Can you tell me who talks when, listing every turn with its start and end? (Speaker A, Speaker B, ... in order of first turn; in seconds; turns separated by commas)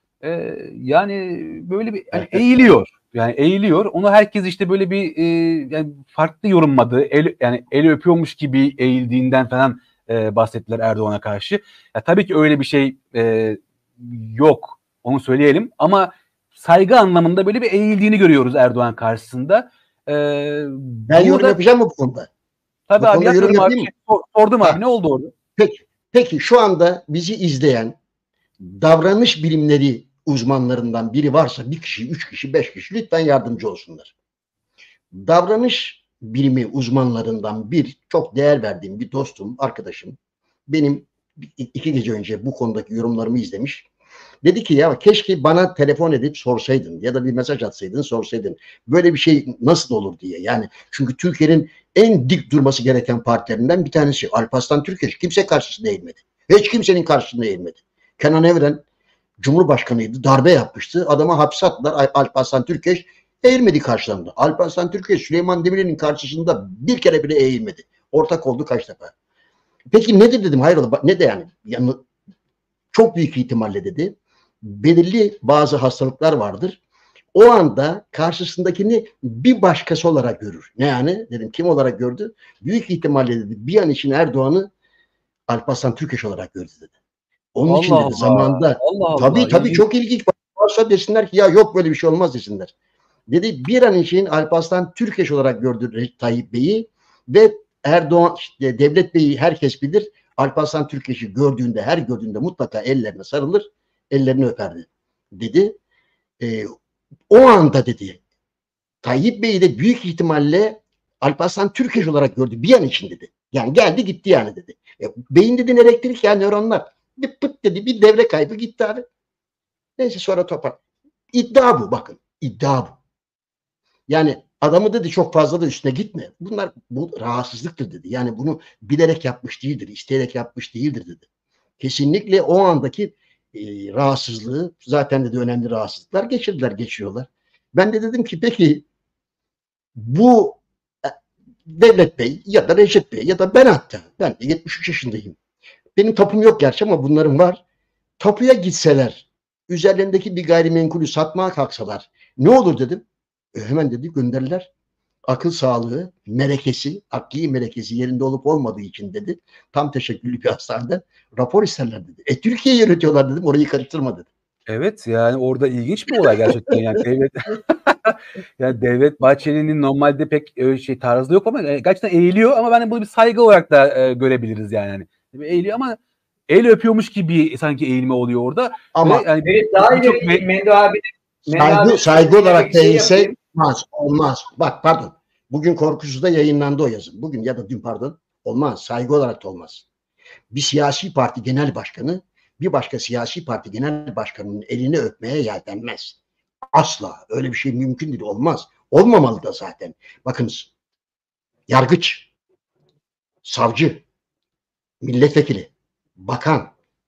Speaker A: 0.2-21.6, Speaker B: 2.1-2.5, Speaker B: 21.1-22.3, Speaker A: 22.9-25.3, Speaker B: 23.0-23.9, Speaker B: 25.6-27.9, Speaker B: 28.6-34.1, Speaker B: 35.1-43.9, Speaker B: 44.4-58.8, Speaker B: 59.4-69.1, Speaker B: 69.9-72.0, Speaker B: 72.9-76.8, Speaker B: 77.3-84.7, Speaker B: 85.5-86.9, Speaker B: 87.5-92.7, Speaker A: 87.7-89.8, Speaker B: 93.3-105.8, Speaker B: 106.4-106.7, Speaker B: 107.3-108.2, Speaker B: 109.0-119.0, Speaker B: 120.0-120.8, Speaker B: 121.3-123.0, Speaker B: 124.1-131.2, Speaker B: 131.8-138.8, Speaker B: 139.9-141.1, Speaker B: 141.7-145.4, Speaker B: 145.9-147.6, Speaker B: 148.2-153.0, Speaker B: 153.5-154.7, Speaker B: 155.3-164.3, Speaker A: 164.7-180.5, Speaker B: 178.9-179.2, Speaker C: 179.4-183.3, Speaker B: 181.5-189.8, Speaker B: 190.5-196.2, Speaker B: 196.7-200.7, Speaker B: 201.7-202.3, Speaker B: 203.4-204.0, Speaker B: 205.0-206.7